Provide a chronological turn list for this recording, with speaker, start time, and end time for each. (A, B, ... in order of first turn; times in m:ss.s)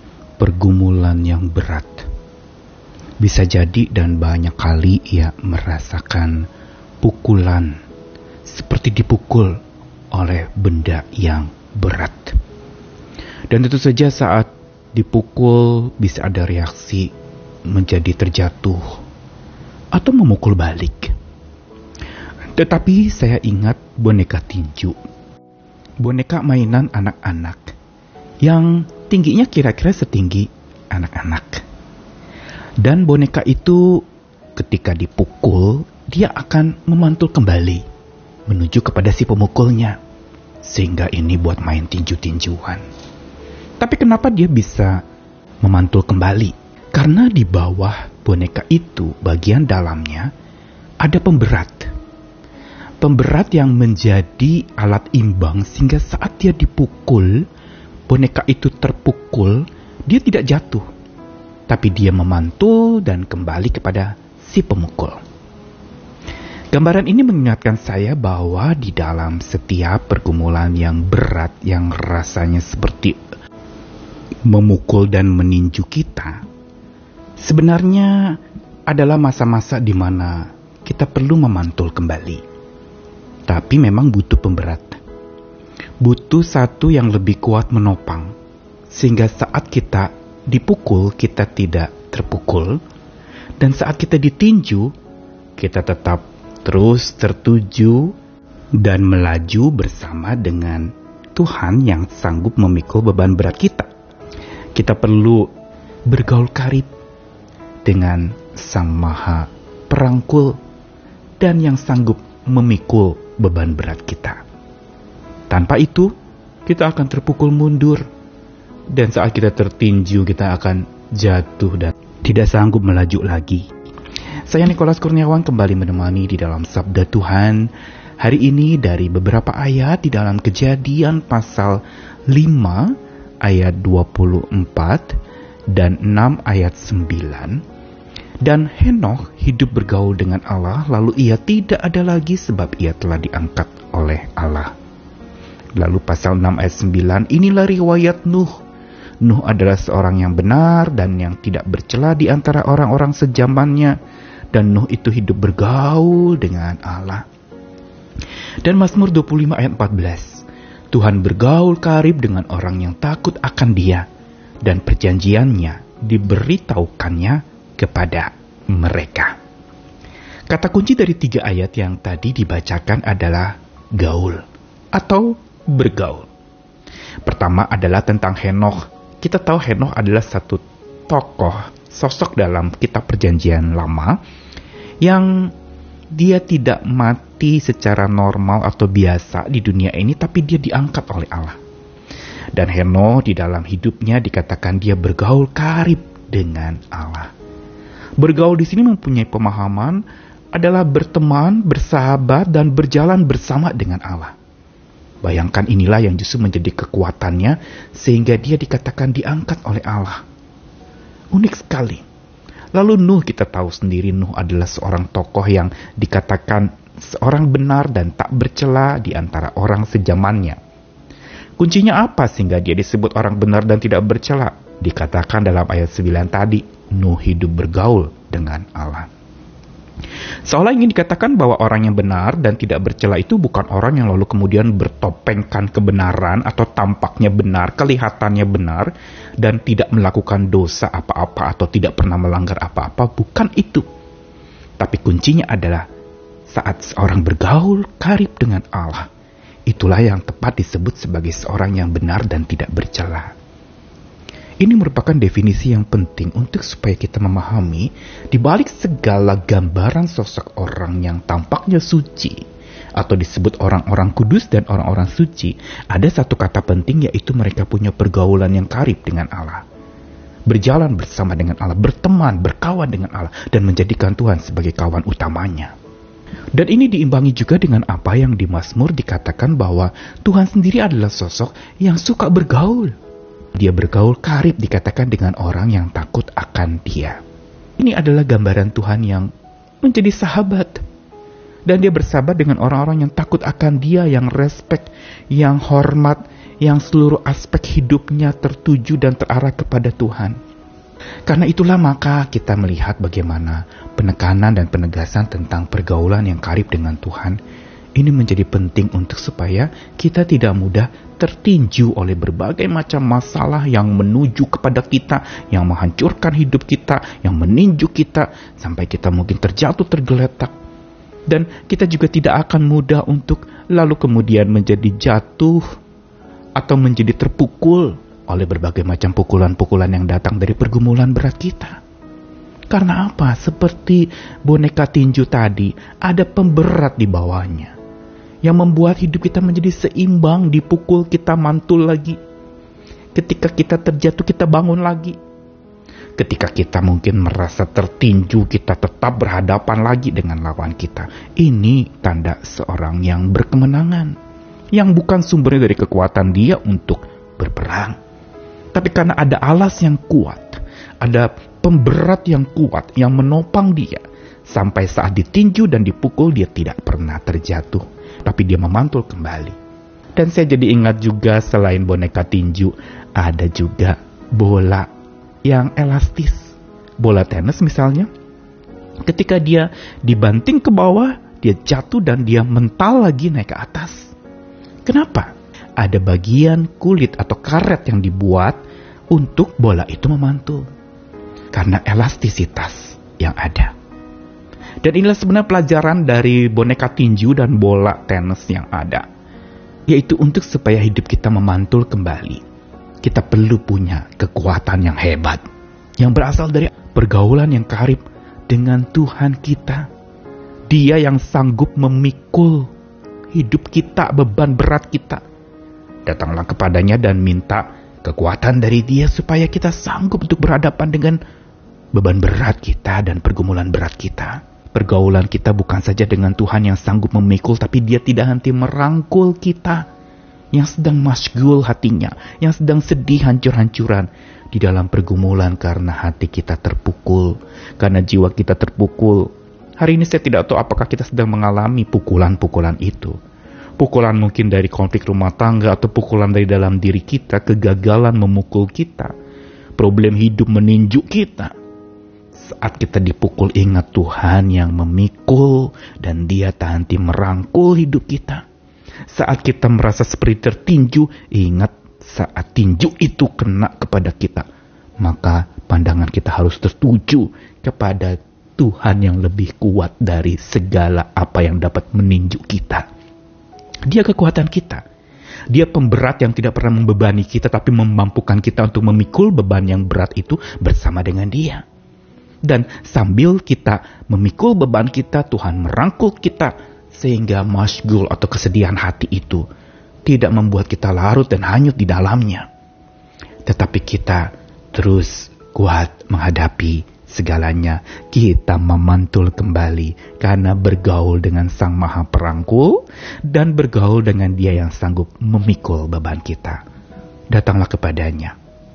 0:00.4-0:02.0 A
0:03.2-0:06.4 A
0:07.0-0:07.8 A
0:08.5-0:09.6 A
0:10.1-0:12.4 A
0:13.5-0:17.1 A
0:17.7-0:19.0 A
0:19.9-0:21.1 A
0:22.5-0:25.0 A
0:26.0-0:27.7 A
0:28.4-0:31.6 A
0:32.8-0:34.0 A
0:34.6-0:37.8 A
0:38.5-0:40.0 A
0:40.6-0:42.8 A
0:43.8-0:45.0 A
0:45.6-0:50.3 A
0:51.0-0:51.9 A
0:53.0-0:57.4 A
0:58.1-1:00.8 A
1:01.7-1:05.2 A
1:06.7-1:13.2 A
1:14.5-1:16.4 A
1:17.4-1:22.4 A
1:23.5-1:25.0 A
1:26.0-1:28.3 A
1:28.9-1:32.8 A
1:33.6-1:34.9 A
1:35.6-1:38.1 A
1:38.8-1:43.9 A
1:44.8-1:45.5 A
1:46.1-1:46.9 A
1:47.8-1:50.6 A
1:51.4-1:54.4 A
1:55.5-1:56.1 A
1:56.6-1:58.0 A
1:58.9-2:03.7 A
2:04.5-2:15.2 A
2:15.7-2:17.6 A
2:18.4-2:24.7 A
2:25.8-2:28.6 A
2:29.2-2:34.0 A
2:34.5-2:37.2 A
2:38.6-2:44.0 A
2:44.6-2:49.3 A
2:50.5-2:54.4 A
2:54.9-2:56.3 A
2:57.2-3:04.2 A
3:05.0-3:05.5 A
3:06.1-3:11.6 A
3:12.5-3:17.3 A
3:18.2-3:20.0 A
3:20.5-3:24.3 A
3:25.2-3:30.2 A
3:31.3-3:32.0 A
3:32.7-3:40.6 A
3:41.6-3:49.1 A
3:50.4-4:03.8 A
4:04.8-4:05.8 A
4:06.5-4:09.1 A
4:09.7-4:13.3 A
4:14.6-4:22.4 A
4:23.0-4:29.6 A
4:30.5-4:35.7 A
4:36.5-4:42.9 A
4:43.6-4:47.2 A
4:47.8-4:49.3 A
4:49.8-4:50.8 A
4:51.7-5:00.4 A
5:01.3-5:07.4 A
5:08.0-5:20.5 A
5:21.3-5:25.6 A
5:26.6-5:31.8 A
5:32.7-5:37.7 A
5:38.4-5:42.2 A
5:43.1-5:45.2 A
5:46.2-5:54.2 A
5:54.7-5:58.0 A
5:58.7-6:09.6 A
6:10.2-6:14.9 A
6:15.4-6:18.1 A
6:19.0-6:24.1 A
6:24.8-6:28.6 A
6:29.1-6:30.6 A
6:31.5-6:33.7 A
6:34.8-6:39.0 A
6:39.9-6:42.4 A
6:43.0-6:45.4 A
6:46.0-6:49.8 A
6:50.7-6:52.7 A
6:53.3-6:55.2 A
6:56.0-7:01.2 A
7:01.9-7:09.8 A
7:10.5-7:23.2 A
7:23.8-7:29.1 A
7:29.8-7:31.5 A
7:32.4-7:38.4 A
7:39.1-7:44.4 A
7:45.0-7:52.8 A
7:53.9-7:54.8 A
7:55.5-8:01.6 A
8:02.4-8:09.4 A
8:10.0-8:12.5 A
8:13.4-8:26.6 A
8:27.3-8:28.3 A